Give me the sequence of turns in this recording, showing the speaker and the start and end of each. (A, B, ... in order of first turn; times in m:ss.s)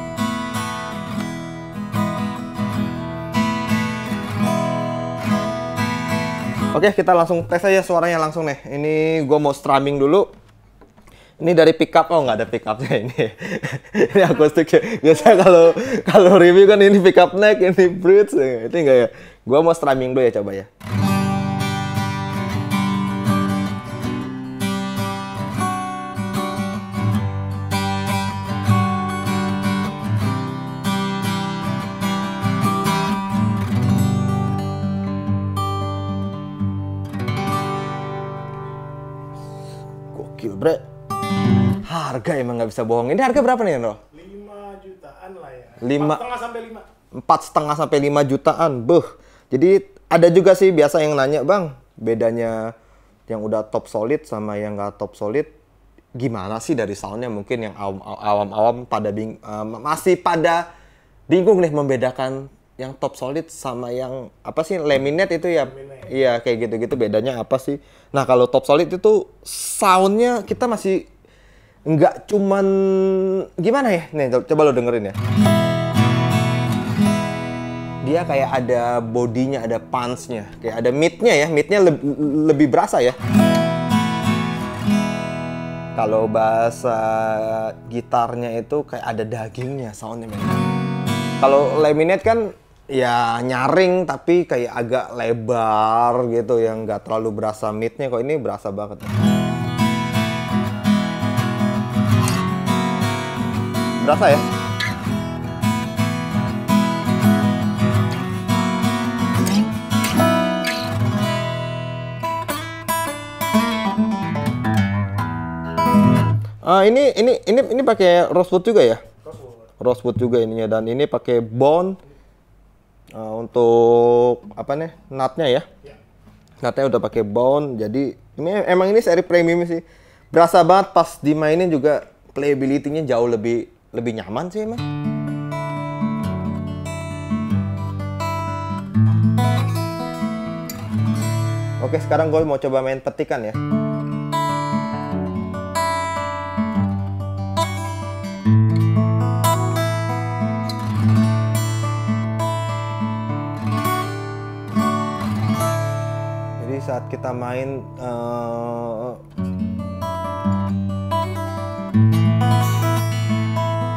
0:06.7-0:10.3 A
0:11.4-0:20.7 A
0:40.1-0:40.8 A
0:41.8-0:44.0 A
0:44.1-0:46.9 B
0:45.8-0:46.2 A
0:47.1-0:52.7 A
0:53.3-0:55.5 A
0:56.2-1:00.6 A
1:01.3-1:11.1 A
1:05.7-1:06.1 B
1:11.9-1:15.2 A
1:18.0-1:23.2 A
1:26.0-1:30.6 A
1:31.4-1:39.2 A
1:44.0-1:44.5 A
1:56.6-1:59.0 A
1:59.2-1:59.6 B
1:59.8-2:02.0 A
2:03.1-2:05.7 A
2:06.6-2:14.8 A
2:21.8-2:23.6 A
2:36.6-2:39.2 A